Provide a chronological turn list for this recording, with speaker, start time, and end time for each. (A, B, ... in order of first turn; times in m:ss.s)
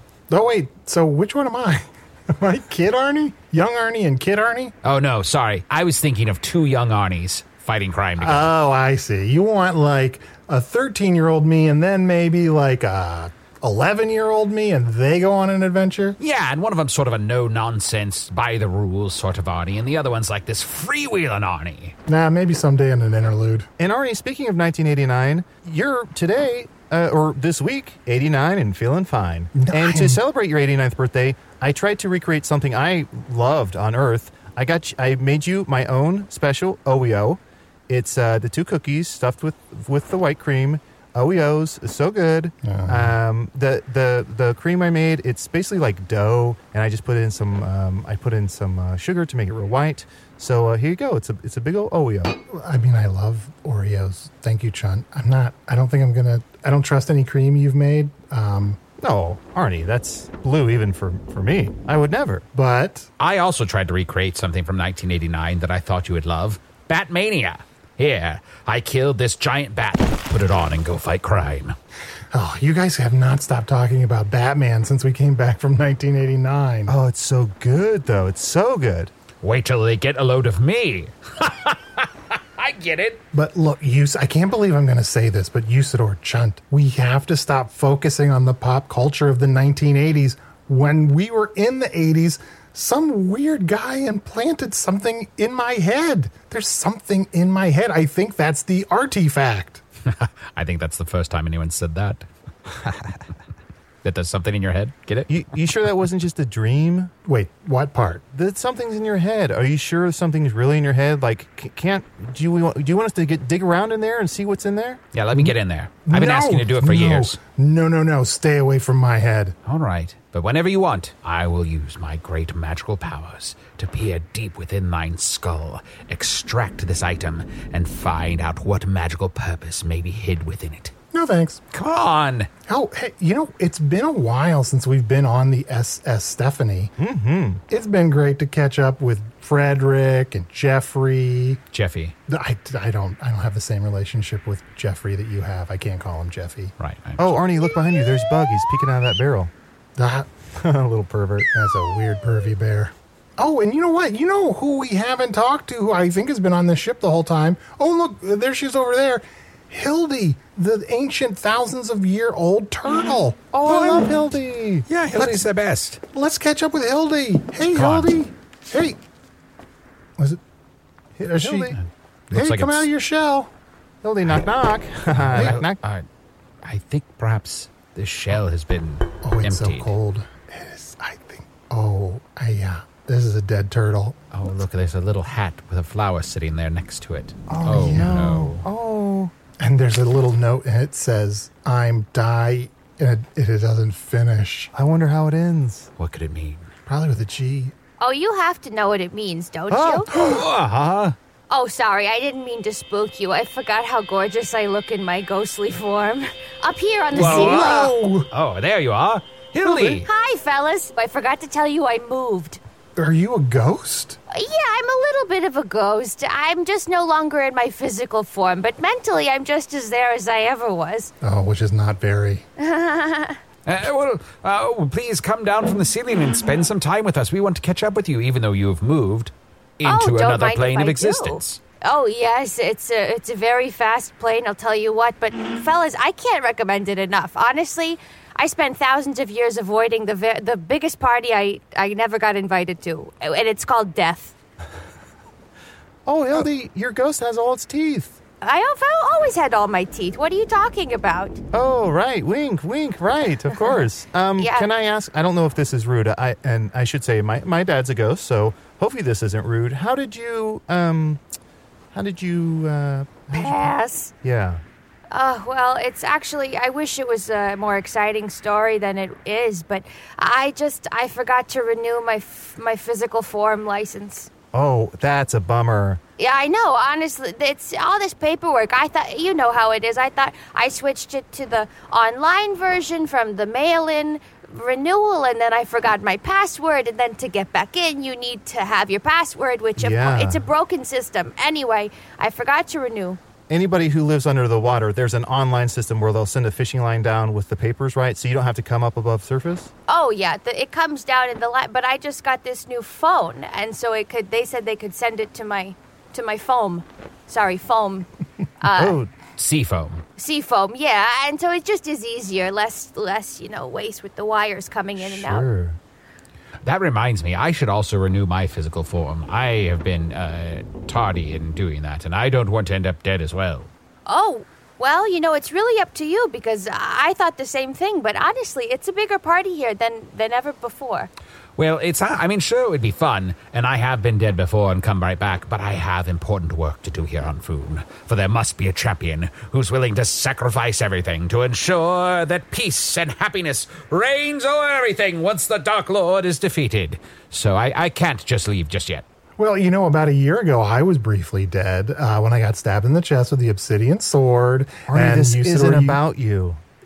0:00.3-0:04.7 A
0:04.8-0:08.5 B
0:08.2-0:16.2 A
0:16.2-0:21.9 B
0:22.1-0:23.7 A
0:23.8-0:52.4 C
0:29.6-0:30.2 A
0:42.6-0:43.2 A
0:52.5-0:58.8 A
0:59.0-1:02.4 C
1:02.5-1:03.1 A
1:03.2-1:11.7 B
1:12.3-1:16.9 A
1:16.8-1:19.1 C
1:19.4-1:23.2 B
1:23.3-1:39.8 A
1:40.0-1:43.2 B
1:44.0-1:45.3 B
1:45.3-1:47.1 C
1:47.2-1:48.2 A
1:48.3-1:55.0 C
1:55.1-1:57.4 B
1:56.0-1:59.6 A
1:59.6-2:10.9 B
2:11.1-2:11.6 A
2:11.7-2:12.5 B
2:12.7-2:16.9 A
2:17.0-2:17.6 C
2:17.7-2:21.6 A
2:21.7-2:22.2 B
2:22.3-2:26.7 A
2:26.8-2:27.3 B
2:27.2-2:29.5 C
2:30.0-2:30.3 A
2:30.5-2:31.5 C
2:31.5-2:44.0 A
2:43.5-2:44.9 C
2:43.7-2:44.0 B
2:44.9-2:46.0 B
2:45.2-2:45.4 A
2:46.1-2:49.0 A
2:47.7-2:48.1 B
2:51.2-2:51.7 A
2:51.4-2:52.9 B
2:52.3-2:53.5 A
2:54.0-2:55.8 C
2:55.1-2:56.0 B
2:56.6-2:59.9 B
2:59.2-3:04.2 A
3:04.3-3:08.7 B
3:07.5-3:09.3 C
3:07.7-3:08.1 A
3:09.6-3:14.7 A
3:14.7-3:15.9 C
3:16.0-3:16.7 B
3:16.8-3:17.7 A
3:18.0-3:20.1 D
3:19.7-3:20.1 C
3:20.1-3:21.2 B
3:20.1-3:20.4 A
3:21.5-3:27.9 D
3:27.1-3:28.3 A
3:27.1-3:30.1 B
3:29.6-3:30.0 A
3:30.0-3:32.6 D
3:33.0-3:34.2 A
3:34.3-3:41.1 D
3:41.2-3:42.4 A
3:42.6-3:43.4 D
3:43.6-3:51.6 B
3:49.8-4:04.4 D
4:06.0-4:08.2 C
4:08.4-4:11.4 D
4:11.5-4:21.2 C
4:14.4-4:14.7 D
4:21.9-4:23.7 C
4:23.3-4:24.1 D
4:24.2-4:24.6 C
4:25.1-4:34.3 D
4:34.5-4:36.0 C
4:36.2-4:53.2 D
4:49.8-4:50.5 C
4:53.5-4:59.7 C
4:59.9-5:08.1 D
5:08.6-5:09.0 D
5:08.7-5:09.1 C
5:09.4-5:10.0 B
5:10.2-5:15.5 D
5:15.0-5:15.8 C
5:16.6-5:23.7 B
5:24.0-5:31.1 D
5:31.6-5:49.0 B
5:49.4-5:56.0 A
5:54.9-5:56.6 C